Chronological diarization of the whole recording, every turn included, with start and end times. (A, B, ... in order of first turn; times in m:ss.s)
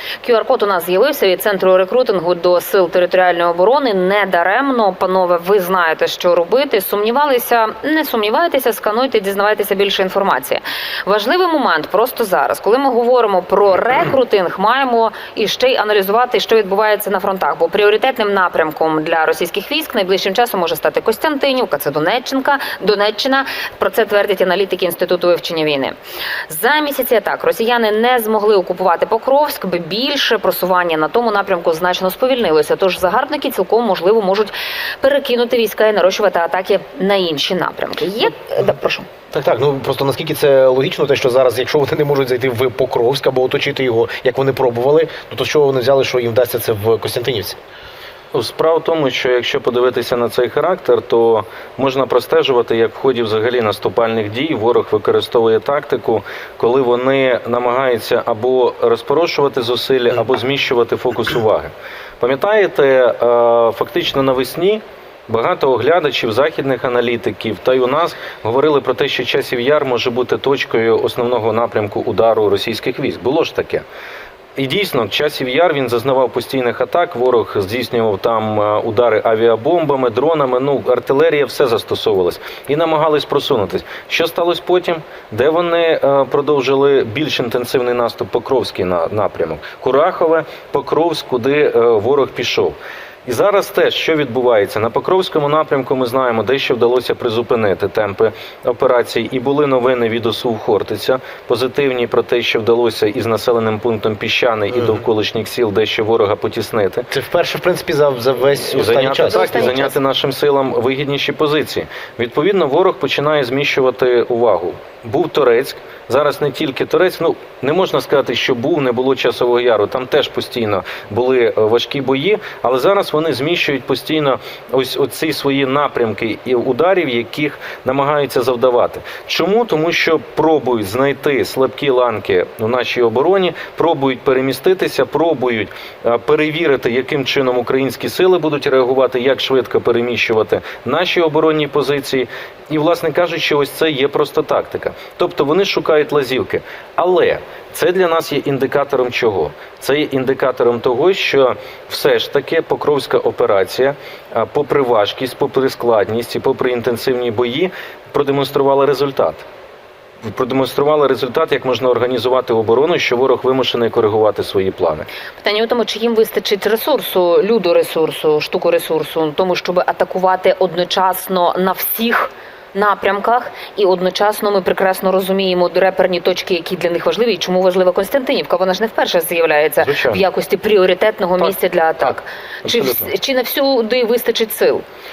0:00.2-0:26.0 A
0:26.5-0:39.1 A
0:39.3-0:47.6 B
0:48.3-1:13.8 C
1:14.6-1:47.1 C
1:44.7-1:45.0 B
1:47.1-1:49.9 B
1:48.7-2:39.4 C
1:49.4-1:49.8 A
2:40.2-2:45.1 C
2:45.4-3:04.8 A
2:59.8-3:00.2 C
3:02.6-3:03.1 C